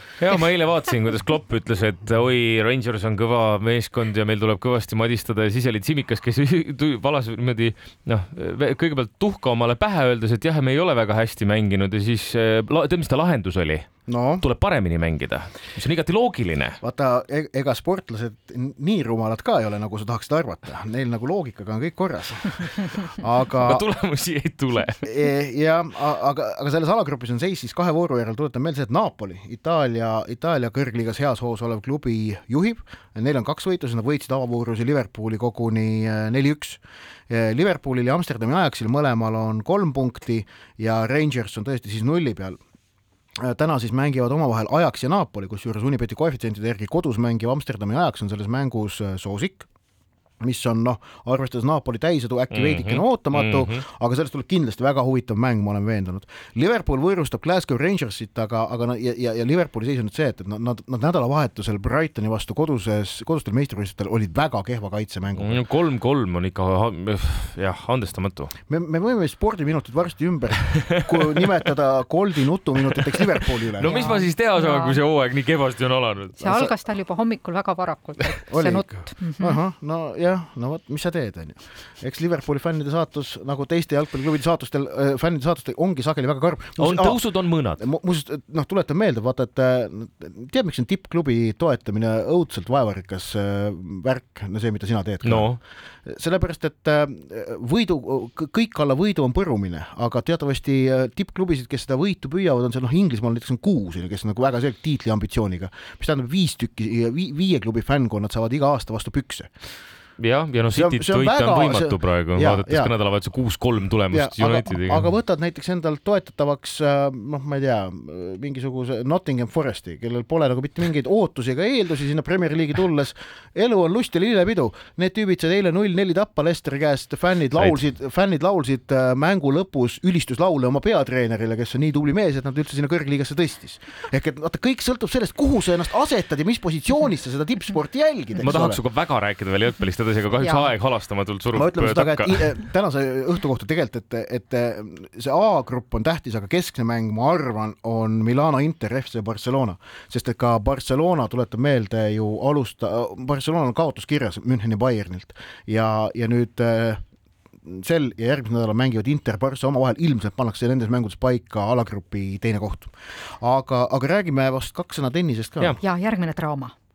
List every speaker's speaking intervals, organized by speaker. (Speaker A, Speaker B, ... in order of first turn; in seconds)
Speaker A: 0.2-13.9, 14.4-16.8, 23.6-25.1, 52.5-53.7, 65.4-68.5, 73.8-76.4, 86.8-87.8, 95.2-95.6, 110.2-115.0, 138.4-142.3
Speaker B: 14.1-14.4, 16.8-23.9, 25.0-42.6, 43.4-49.7, 50.4-65.6, 68.7-74.0, 76.4-76.7, 78.4-87.2, 87.8-109.5, 110.7-112.9, 114.1-138.8, 141.5-157.0, 157.6-165.8
Speaker C: 73.8-75.0, 76.4-79.6, 165.8-166.7